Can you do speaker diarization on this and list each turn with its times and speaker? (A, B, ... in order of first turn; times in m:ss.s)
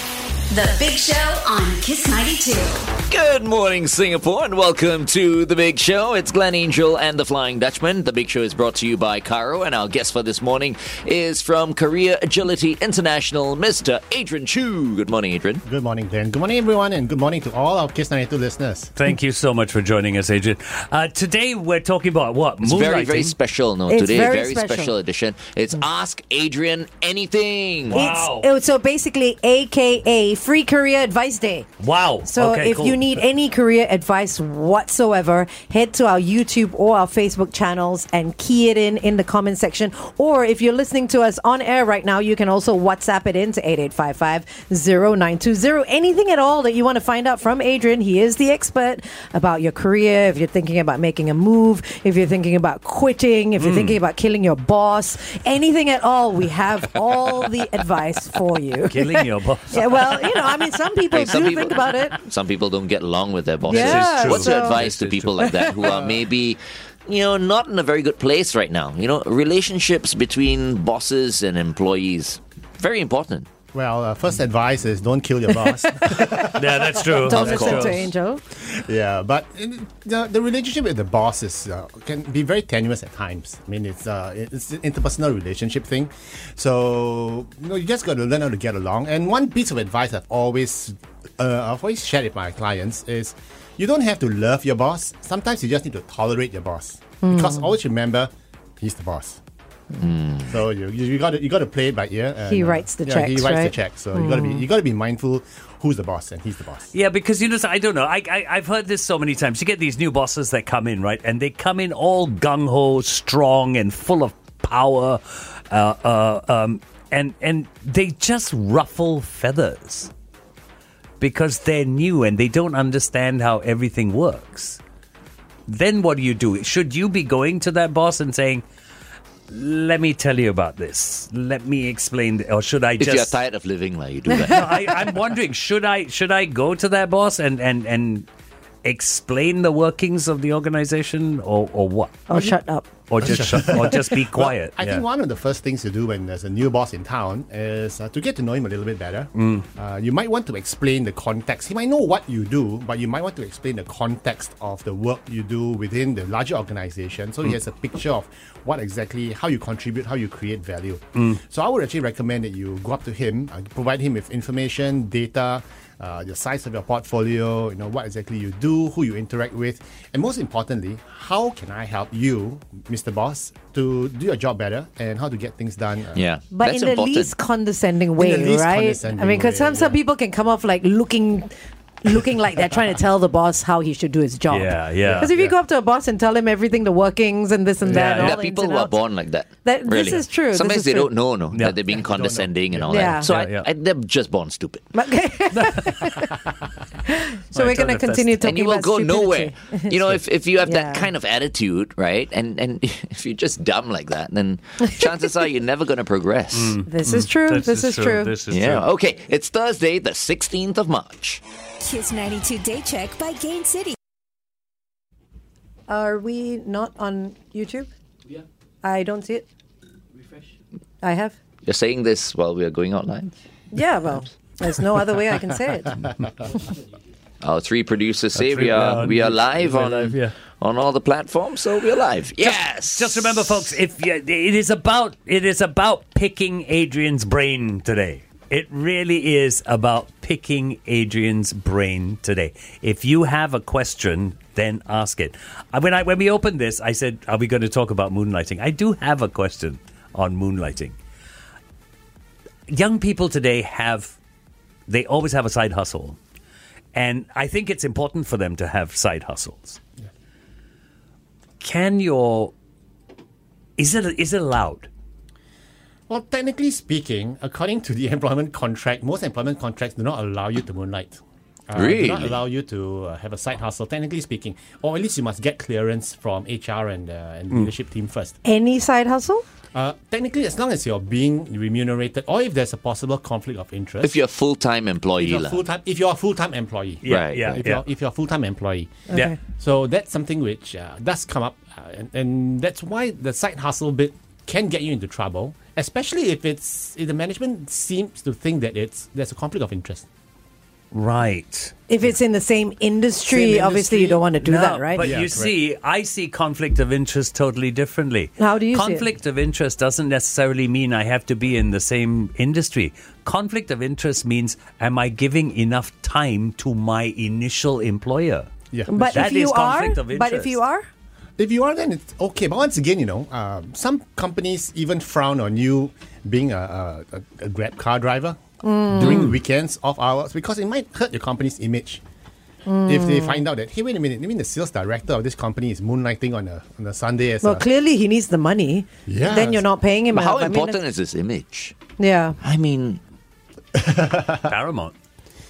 0:00.5-0:02.9 A
0:03.1-0:15.6 B
0:15.6-0:18.9 C
0:19.0-0:23.4 D
0:22.6-0:28.1 B
0:23.9-0:25.0 E
0:27.9-0:28.5 D
0:27.9-0:31.7 E
0:31.8-0:33.1 D
0:32.2-1:02.2 E
0:53.6-0:54.0 D
0:58.8-1:00.6 D
1:01.1-1:13.5 B
1:01.1-1:01.6 D
1:03.6-1:04.8 E
1:03.7-1:05.7 D
1:05.4-1:05.7 E
1:05.8-1:06.2 C
1:13.7-1:17.9 C
1:15.6-1:15.9 E
1:16.6-1:18.1 D
1:17.2-1:18.4 E
1:17.4-1:17.8 B
1:18.6-1:39.4 C
1:37.2-1:37.7 E
1:39.9-1:40.6 B
1:40.5-1:46.9 C
1:42.5-1:44.6 E
1:46.9-2:00.1 D
2:01.2-2:04.8 D
2:05.7-2:08.6 D
2:09.5-2:13.4 D
2:13.0-2:15.0 B
2:14.5-2:18.3 D
2:18.8-2:22.5 D
2:22.3-2:22.9 E
2:23.1-2:25.0 D
2:23.2-2:56.3 C
2:29.4-2:29.7 D
2:56.2-2:57.3 B
2:56.5-3:08.9 E
2:58.2-3:00.0 C
3:04.5-3:05.3 D
3:05.0-3:05.6 C
3:07.9-3:08.4 D
3:07.9-3:14.9 B
3:09.6-3:11.1 E
3:11.5-3:11.8 D
3:12.0-3:13.2 C
3:12.9-3:13.3 E
3:13.3-3:13.7 D
3:14.9-3:16.3 E
3:17.1-3:20.0 E
3:17.5-3:18.4 D
3:18.4-3:26.8 B
3:20.6-3:21.1 E
3:26.5-3:28.9 D
3:26.9-3:28.3 E
3:28.5-3:31.4 B
3:31.8-3:33.9 A
3:35.9-3:37.9 E
3:38.8-3:39.5 E
3:41.0-3:41.4 E
3:41.6-3:43.3 B
3:43.7-3:46.1 E
3:47.4-3:53.6 B
3:48.3-3:50.3 D
3:52.4-4:11.0 D
4:12.7-4:14.2 D
4:14.9-4:16.2 D
4:16.9-4:19.8 D
4:21.6-4:22.5 D
4:23.8-4:24.9 D
4:26.1-4:38.4 C
4:31.8-4:32.4 B
4:38.4-4:39.4 E
4:39.7-4:44.2 C
4:44.0-4:45.6 B
4:45.2-5:00.1 C
4:47.0-4:47.8 D
4:47.1-4:47.6 B
4:49.1-4:49.4 E
5:00.9-5:01.8 D
5:01.9-5:05.1 E
5:03.3-5:04.2 C
5:04.4-5:18.5 D
5:05.0-5:05.6 C
5:08.4-5:09.1 E
5:18.7-5:19.3 C
5:18.9-5:20.9 E
5:19.1-5:20.6 D
5:21.4-5:32.0 C
5:28.6-5:29.3 E
5:32.7-5:33.4 E
5:32.8-5:37.6 C
5:37.4-5:40.8 E
5:39.1-5:39.6 C
5:40.1-5:41.8 B
5:42.0-5:42.4 E
5:42.4-5:43.0 B
5:43.7-5:44.6 C
5:44.4-5:44.9 D